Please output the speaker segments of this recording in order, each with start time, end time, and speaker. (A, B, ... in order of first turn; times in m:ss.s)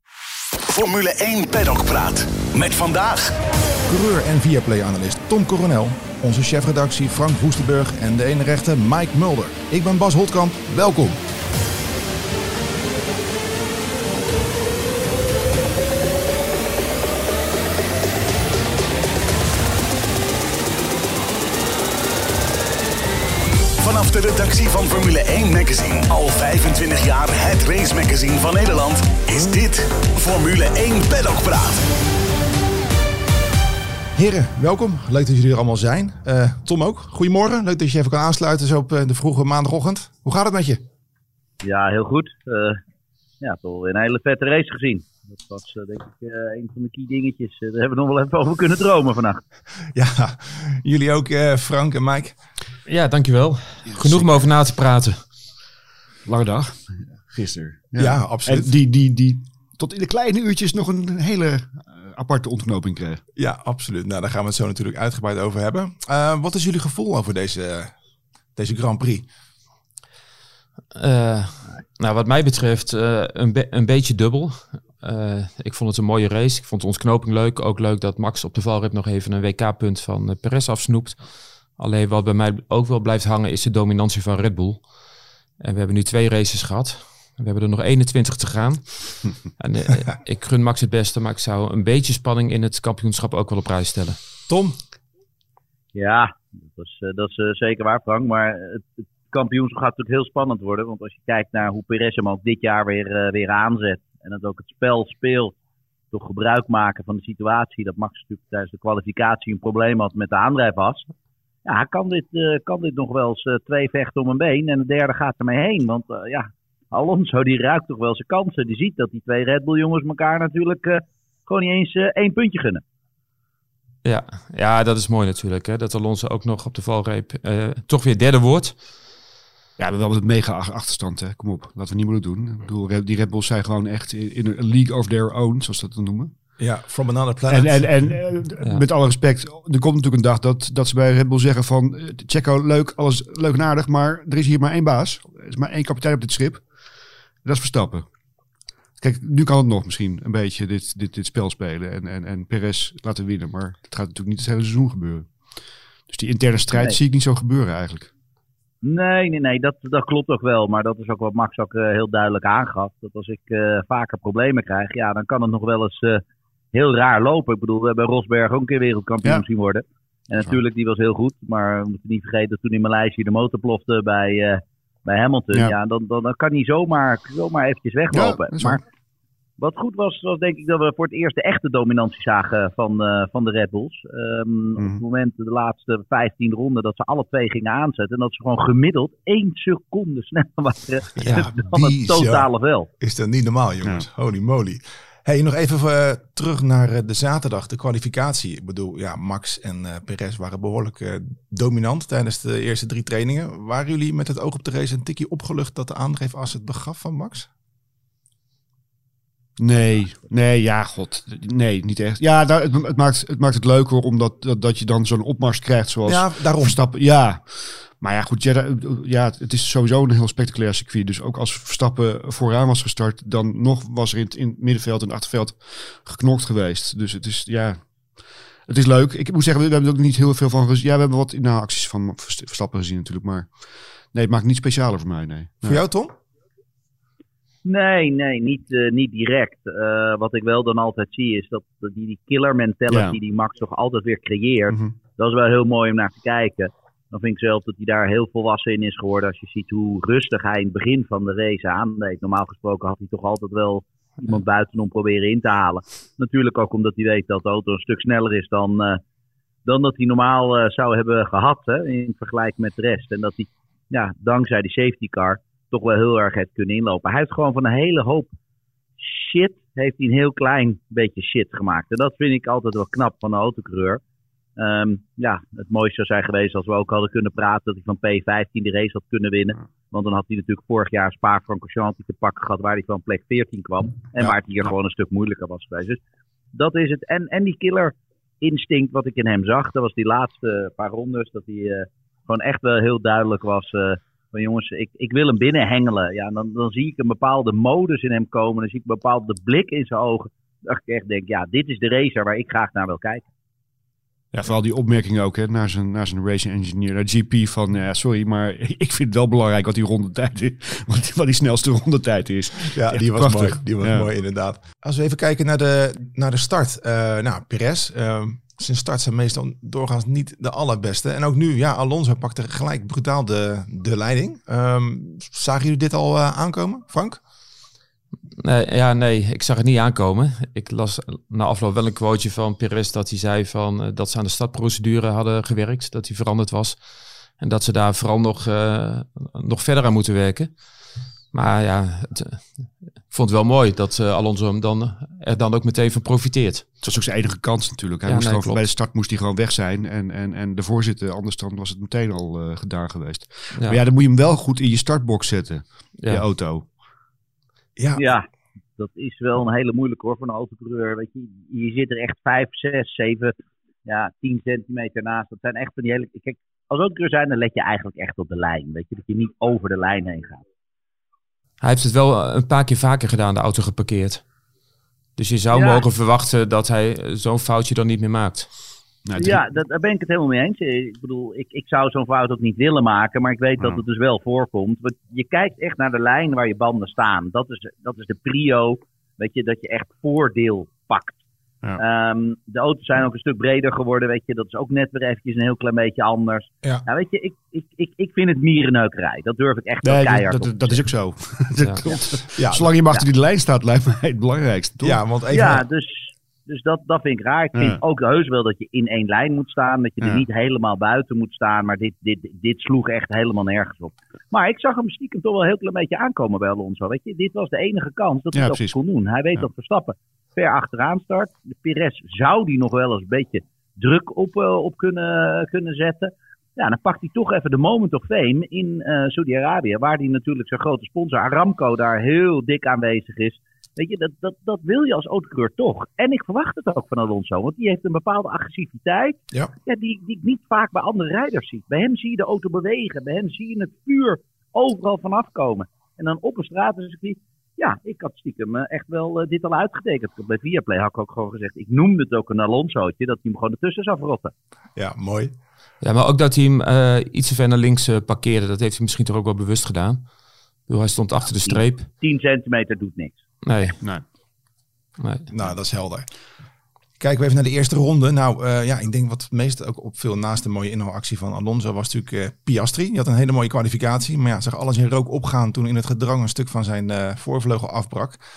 0:00.6-0:03.3 A
0:03.9-0:11.2 B
0:23.8-0:31.8 A
0:34.1-0:40.8 B
0:41.6-0:42.8 C
0:43.4-0:49.4 C
0:49.9-0:52.4 B
0:52.8-0:55.2 D
0:53.9-0:54.3 E
0:56.2-1:03.2 E
0:58.0-0:58.7 B
1:03.4-1:07.9 B
1:08.6-1:09.2 B
1:10.9-1:24.9 D
1:25.6-1:34.2 D
1:34.5-1:34.8 B
1:35.9-1:45.6 C
1:46.1-1:51.0 C
1:51.6-2:02.8 C
2:04.0-2:08.8 D
2:09.8-2:16.3 E
2:16.6-2:18.0 B
2:17.5-2:26.7 E
2:27.4-2:28.1 E
2:29.0-2:38.1 E
2:36.7-2:37.0 C
2:38.8-2:46.2 C
2:46.7-2:58.8 C
2:58.1-2:58.8 E
2:59.6-3:12.9 C
3:04.8-3:05.0 E
3:11.2-3:27.5 B
3:29.6-3:55.8 E
3:36.0-3:36.8 B
3:55.6-3:56.1 B
3:57.6-4:19.0 C
4:02.9-4:03.2 E
4:19.6-4:28.3 C
4:29.0-4:34.0 C
4:34.6-4:46.0 C
4:46.5-5:03.2 C
5:04.3-5:14.1 E
5:12.7-5:27.2 B
5:28.4-5:36.8 D
5:37.4-5:40.6 D
5:41.3-5:46.8 D
5:46.8-5:56.7 E
5:48.0-5:48.6 D
5:53.5-5:53.8 D
5:57.8-5:58.1 B
5:58.0-5:58.3 C
5:58.8-6:03.3 C
6:03.8-6:10.4 C
6:11.6-6:14.3 D
6:15.2-6:18.5 D
6:15.5-6:15.8 C
6:19.0-6:19.4 E
6:19.2-6:31.2 C
6:31.8-6:40.9 C
6:39.8-6:45.0 E
6:42.3-6:42.7 B
6:44.8-6:45.6 B
6:45.3-7:34.3 C
6:47.5-6:47.8 E
6:50.0-6:50.2 E
6:58.3-6:58.8 E
7:34.7-7:35.3 B
7:35.8-7:40.1 D
7:40.7-7:41.9 D
7:41.4-7:43.2 C
7:43.4-7:43.8 D
7:45.0-7:45.3 D
7:45.3-7:46.1 B
7:47.0-7:58.2 B